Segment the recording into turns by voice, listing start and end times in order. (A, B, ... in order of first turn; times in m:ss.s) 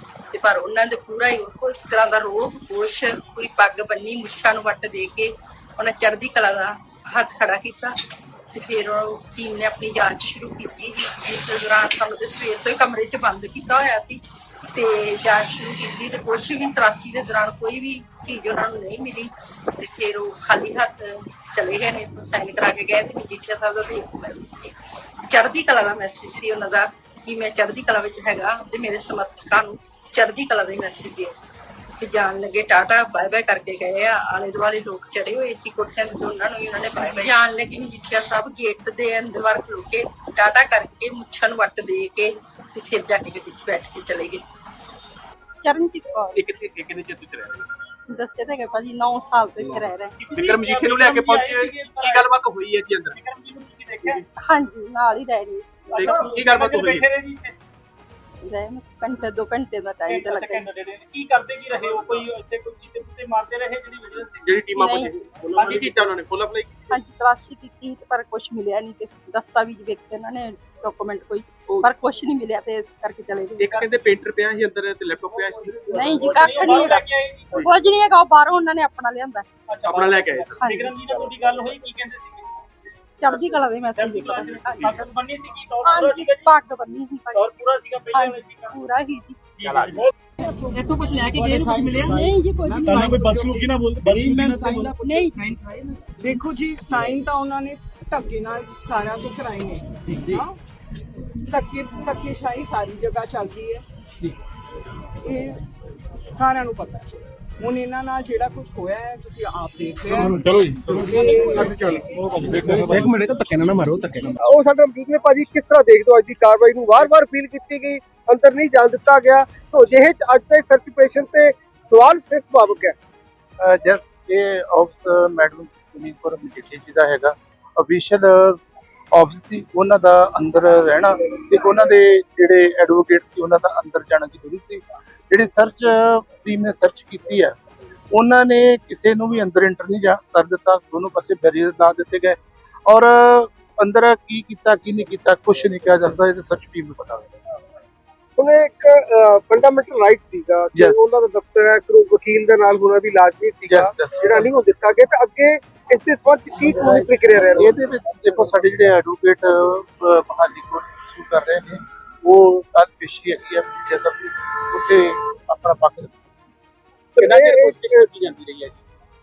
0:00.3-0:07.9 A
0:08.5-0:14.2 A
0:14.7-0:24.7 A
0:25.3-0:31.3 A
0:32.0-0:44.4 A
0:45.6-0:46.2 B
0:46.4-0:47.6 C
0:48.1-0:50.1 B
0:49.6-0:53.2 C
0:50.2-0:52.4 D
0:53.1-0:54.2 D
0:54.4-0:55.6 B
0:55.9-0:57.6 D
0:56.0-0:57.1 C
0:58.4-1:00.6 B
1:00.1-1:04.7 D
1:04.4-1:06.9 C
1:04.8-1:05.0 B
1:05.6-1:06.2 D
1:06.9-1:13.5 B
1:13.6-1:16.9 C
1:15.3-1:17.7 D
1:16.0-1:17.0 B
1:17.7-1:19.4 B
1:19.7-1:22.6 D
1:19.8-1:21.2 C
1:23.2-1:26.5 D
1:23.2-1:25.0 B
1:25.8-1:27.4 B
1:27.3-1:28.8 D
1:28.1-1:29.4 B
1:29.6-1:30.1 D
1:29.6-1:30.0 C
1:30.4-1:40.6 E
1:32.0-1:33.0 B
1:32.9-1:34.7 F
1:33.0-1:33.6 C
1:35.0-1:35.5 B
1:41.4-1:43.8 E
1:45.2-1:45.6 E
1:46.3-1:52.3 E
1:50.5-1:54.3 F
1:51.3-1:51.7 G
1:54.4-2:02.9 G
2:03.6-2:08.6 H
2:09.1-2:17.5 H
2:18.1-2:27.3 H
2:28.4-2:37.7 G
2:30.8-2:31.1 H
2:33.7-2:34.5 H
2:37.6-2:46.2 H
2:47.2-2:48.1 G
2:47.2-2:48.8 C